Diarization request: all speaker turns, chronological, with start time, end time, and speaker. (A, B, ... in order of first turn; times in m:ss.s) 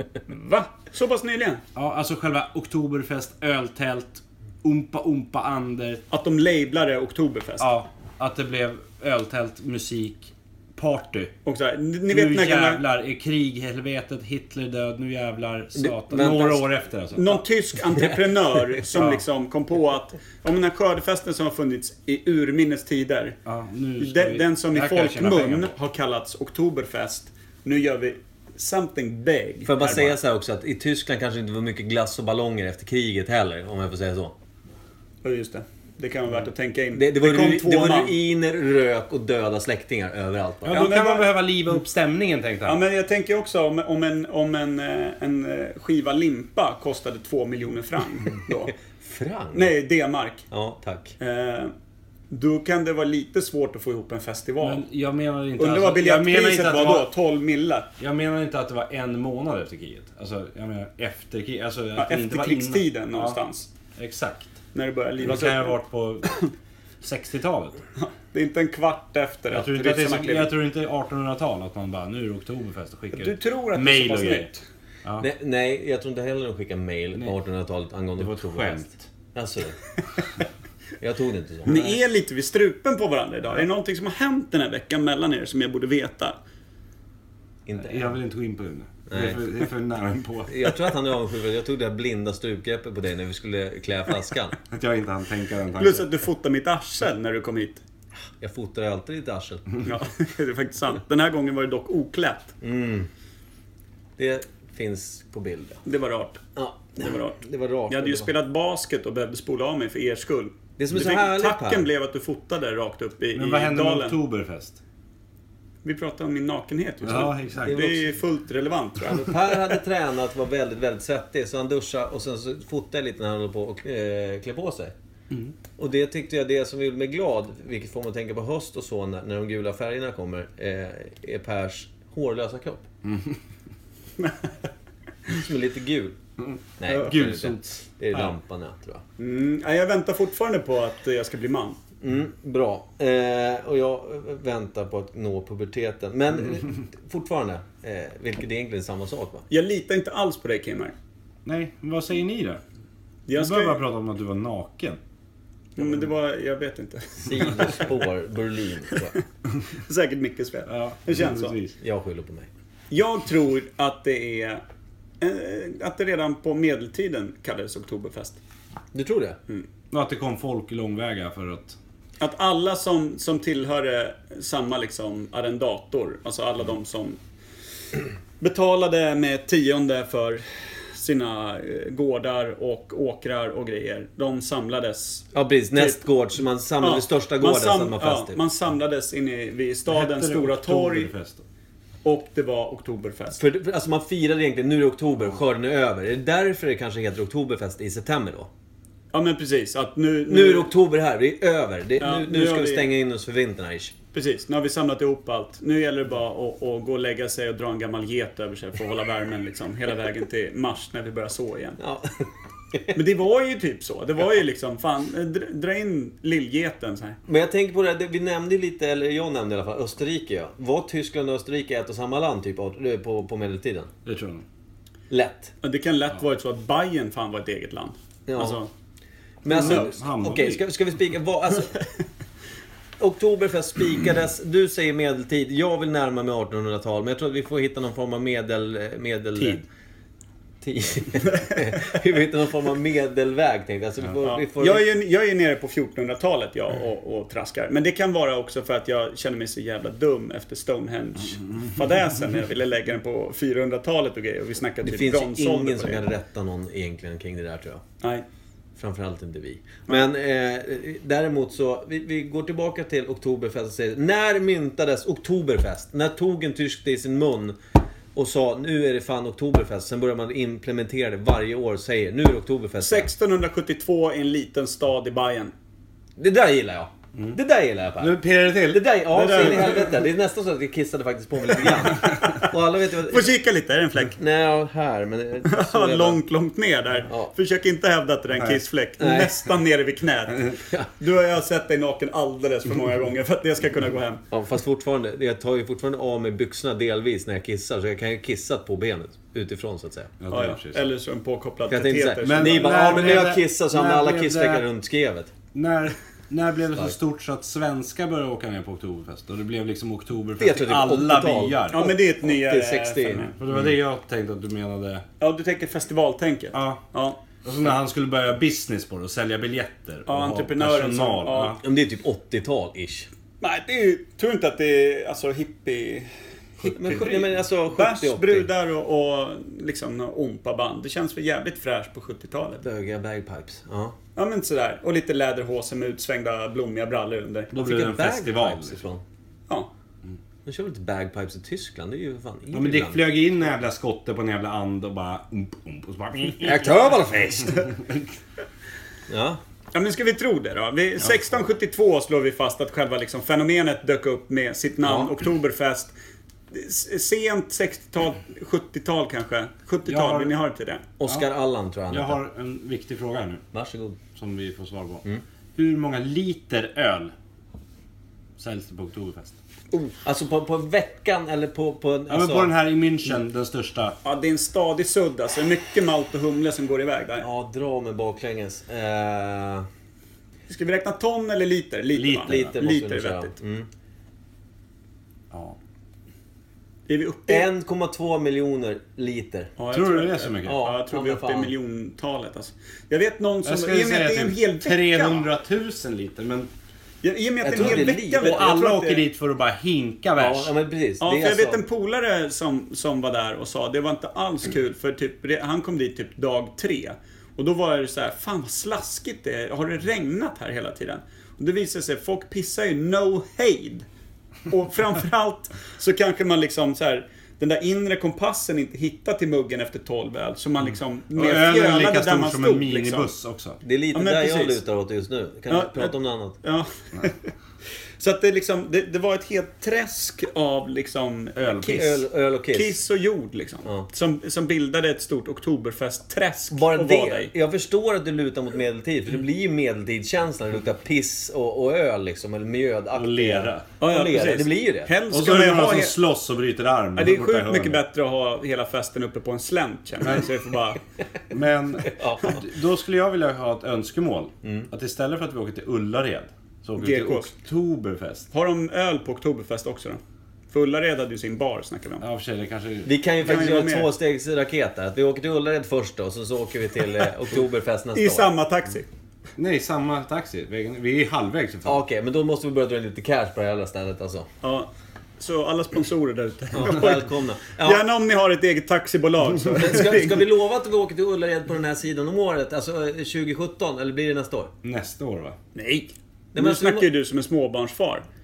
0:00.3-0:01.6 A
0:01.8-0:06.0 B
0:06.1-0:07.7 A
0:07.6-0:11.3 B
0:11.5-0:12.8 A
0:12.1-0:17.4 B
0:15.8-0:16.7 C
0:17.1-0:23.4 A
0:17.9-0:18.8 C
0:19.0-0:19.2 B
0:23.5-0:25.8 B
0:24.0-0:30.2 A
0:29.7-0:34.4 C
0:35.2-0:38.2 A
0:36.9-0:40.9 C
0:40.6-0:42.8 B
0:40.7-0:41.3 A
0:42.7-0:48.7 A
0:48.9-0:49.7 C
0:49.5-0:50.5 A
0:50.5-0:51.2 C
0:51.2-0:51.7 A
0:52.3-0:54.8 A
0:54.6-0:57.1 B
0:55.6-0:57.9 A
0:58.0-1:03.4 B
1:02.0-1:03.7 A
1:04.0-1:04.6 B
1:04.7-1:05.8 A
1:05.2-1:06.3 B
1:07.0-1:07.8 B
1:08.0-1:10.5 A
1:09.5-1:14.5 B
1:13.1-1:14.6 A
1:15.2-1:19.8 C
1:18.2-1:19.1 B
1:21.0-1:21.9 C
1:21.7-1:26.4 A
1:27.7-1:28.2 C
1:27.8-1:30.7 B
1:29.1-1:29.4 C
1:30.5-1:34.6 C
1:34.7-1:36.1 B
1:35.8-1:37.8 A
1:38.4-1:39.6 C
1:39.8-1:42.5 A
1:42.6-1:43.1 C
1:44.2-1:45.8 C
1:45.8-1:54.2 A
1:46.6-1:48.3 C
1:50.8-1:51.9 C
1:53.4-1:54.8 B
1:55.8-1:59.6 A
1:57.0-1:57.8 B
1:57.6-1:58.1 C
1:59.0-2:05.0 C
2:05.8-2:12.9 C
2:13.0-2:13.4 B
2:15.3-2:16.2 C
2:16.4-2:18.3 B
2:16.8-2:19.0 C
2:19.2-2:21.8 A
2:22.0-2:29.5 C
2:29.5-2:30.9 A
2:31.5-2:32.6 B
2:33.3-2:33.8 A
2:33.3-2:35.0 B
2:35.8-2:37.9 A
2:37.2-2:39.2 C
2:39.8-2:41.6 A
2:40.7-2:41.8 B
2:41.8-2:42.5 C
2:42.9-2:44.6 A
2:45.2-2:48.4 A
2:48.9-2:49.4 C
2:49.9-2:51.8 B
2:52.2-2:57.2 A
2:58.4-3:06.0 A
3:05.3-3:08.4 C
3:06.8-3:11.1 A
3:09.9-3:11.4 B
3:12.0-3:13.4 A
3:13.4-3:18.5 C
3:19.1-3:20.7 A
3:20.3-3:23.9 C
3:22.0-3:22.9 A
3:24.1-3:31.8 A
3:31.8-3:32.2 C
3:32.9-3:37.2 A
3:37.3-3:43.9 C
3:44.0-3:44.4 B
3:45.1-3:45.5 C
3:45.6-3:48.7 A
3:48.3-3:48.6 C
3:49.4-3:51.8 C
3:49.5-3:50.0 A
3:49.5-3:50.7 B
3:53.0-3:59.6 C
4:00.6-4:04.9 C
4:04.2-4:16.1 A
4:14.8-4:17.8 C
4:18.8-4:27.6 C
4:28.2-4:33.1 C
4:32.8-4:35.5 A
4:36.2-4:43.3 C
4:38.0-4:39.8 B
4:39.1-4:40.0 A
4:41.6-4:42.5 A
4:43.1-4:44.2 A
4:44.2-4:46.2 C
4:45.4-4:54.2 A
4:47.0-4:47.3 C
4:49.0-4:49.4 C
4:54.3-5:00.1 C
5:00.2-5:00.9 B
5:00.3-5:03.3 A
5:01.7-5:05.3 C
5:02.2-5:04.7 B
5:05.5-5:11.8 B
5:10.4-5:13.6 C
5:11.7-5:13.4 A
5:13.4-5:15.0 B
5:15.2-5:17.2 A
5:16.5-5:16.8 B
5:17.4-5:21.6 B
5:20.1-5:21.6 A
5:21.6-5:23.1 C
5:23.4-5:32.6 A
5:26.6-5:28.5 C
5:32.6-5:34.0 C
5:34.2-5:37.5 A
5:37.5-5:38.8 B
5:37.6-5:39.0 C
5:40.4-5:43.1 C
5:42.5-5:47.0 B
5:46.4-5:47.7 C
5:47.8-5:48.0 B
5:49.1-5:49.4 C
5:49.7-5:55.9 A
5:54.8-5:55.1 C
5:56.5-6:00.9 A
5:59.9-6:00.3 B
6:01.0-6:02.2 C
6:01.9-6:03.4 B
6:03.5-6:04.0 C
6:04.2-6:05.0 B
6:05.6-6:07.1 B
6:08.4-6:09.4 B
6:09.9-6:12.5 C
6:12.1-6:14.0 B
6:14.0-6:17.3 A
6:17.2-6:19.7 C
6:20.5-6:23.4 A
6:21.9-6:22.6 B
6:22.3-6:23.7 C
6:25.3-6:25.6 B
6:26.9-6:27.5 A
6:27.3-6:29.5 C
6:29.6-6:35.3 A
6:29.7-6:30.6 B
6:30.4-6:31.5 C
6:33.4-6:36.5 B
6:37.0-6:39.1 A
6:37.4-6:38.4 C
6:37.5-6:40.5 B
6:40.2-6:41.6 C
6:41.0-6:53.9 A
6:54.5-7:03.1 A
7:01.2-7:03.6 B
7:03.6-7:06.4 C
7:03.9-7:04.6 A
7:05.5-7:07.3 A
7:08.0-7:17.3 A
7:11.4-7:12.8 C
7:16.5-7:24.9 C
7:22.9-7:23.7 B
7:23.8-7:26.0 A
7:25.1-7:27.8 B
7:27.0-7:30.8 A
7:31.3-7:38.3 B
7:31.9-7:32.4 C
7:34.4-7:34.7 C
7:36.8-7:37.3 A
7:38.3-7:40.0 A
7:40.5-7:42.0 A
7:42.0-7:42.9 B
7:42.8-7:48.3 C
7:43.2-7:43.9 A
7:48.0-7:48.9 A
7:49.4-7:51.8 B
7:51.6-7:54.3 C
7:54.4-8:00.2 A
7:56.5-7:57.8 C
7:59.6-8:04.5 C
8:04.6-8:05.4 B
8:05.6-8:08.0 A
8:06.3-8:06.9 C